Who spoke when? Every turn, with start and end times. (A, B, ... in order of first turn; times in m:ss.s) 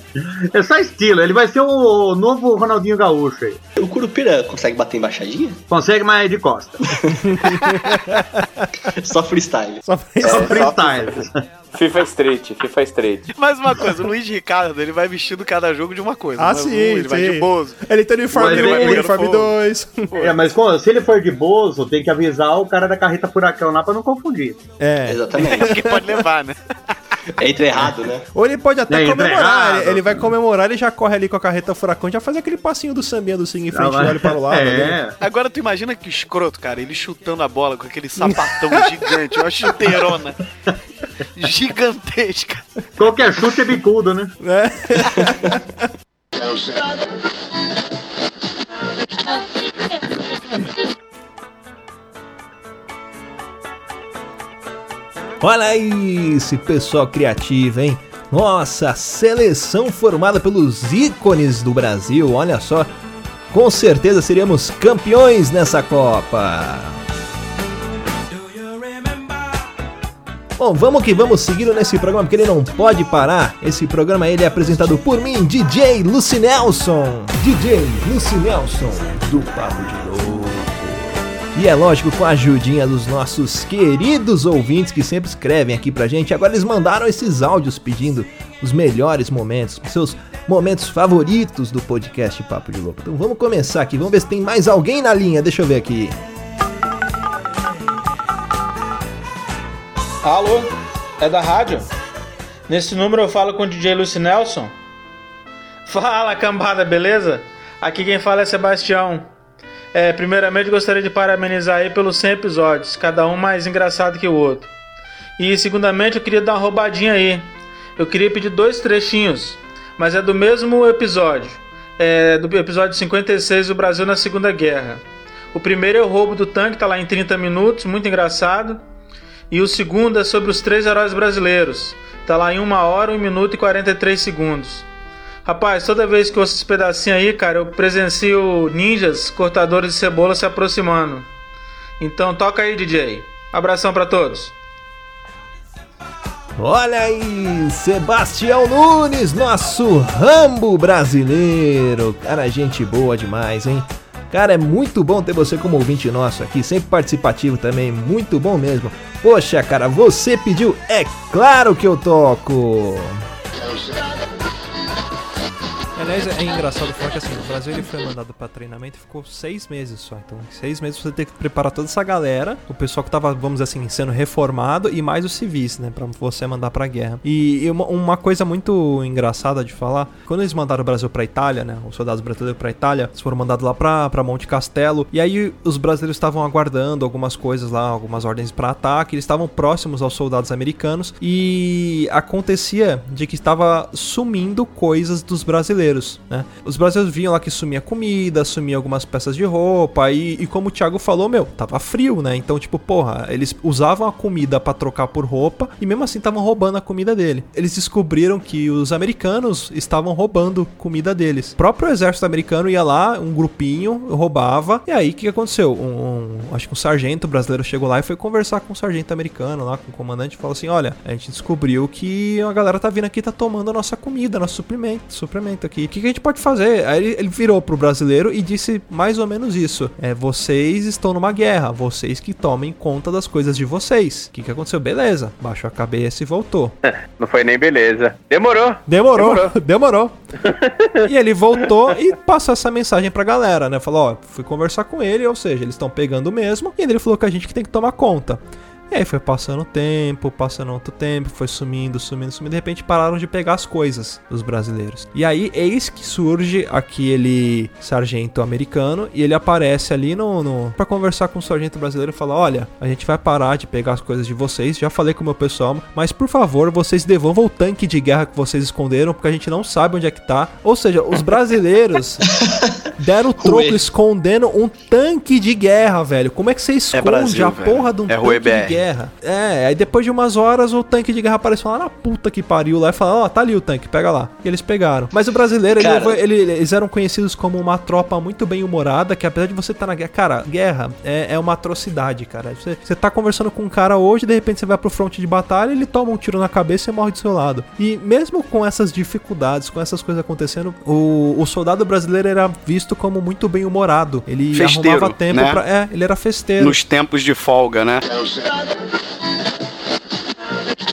0:00.5-0:03.6 A
0:03.8-0:05.6 B
0:05.7-0:06.8 A
0:07.2-0:08.6 C
0:08.9-0:09.8 B
0:09.8-0:10.8 C
0:10.2-0:13.3 D
0:10.2-0:11.4 A
0:13.4-0:19.6 E
0:16.4-0:20.1 C
0:18.4-0:19.1 A
0:20.1-0:20.5 E
0:20.2-0:24.7 A
0:24.8-0:26.0 C
0:25.1-0:25.8 B
0:25.4-0:26.6 E
0:27.4-0:28.2 B
0:28.3-0:35.0 C
0:28.9-0:30.1 A
0:33.7-0:35.1 A
0:35.2-0:40.4 E
0:38.2-0:38.9 C
0:41.4-0:42.6 E
0:43.0-0:44.3 A
0:44.4-0:45.6 C
0:55.4-1:02.9 C
1:03.5-1:07.0 C
1:10.6-1:36.2 C
1:40.2-1:41.9 F
1:42.7-1:44.7 F
1:45.8-1:49.2 F
1:49.9-1:54.7 F
1:55.4-1:57.4 F
1:58.0-2:08.8 F
2:09.5-2:14.8 F
2:15.4-2:21.2 F
2:22.0-2:24.5 F
2:26.6-2:43.2 C
2:46.0-3:56.7 C
3:56.9-3:59.5 D
3:58.9-4:00.1 C
4:00.5-4:01.0 D
4:01.0-4:32.2 C
4:33.0-5:06.8 C
4:33.4-4:33.8 B
4:36.9-4:38.8 E
4:45.7-4:46.2 B
5:04.5-5:05.6 E
5:06.6-5:08.0 E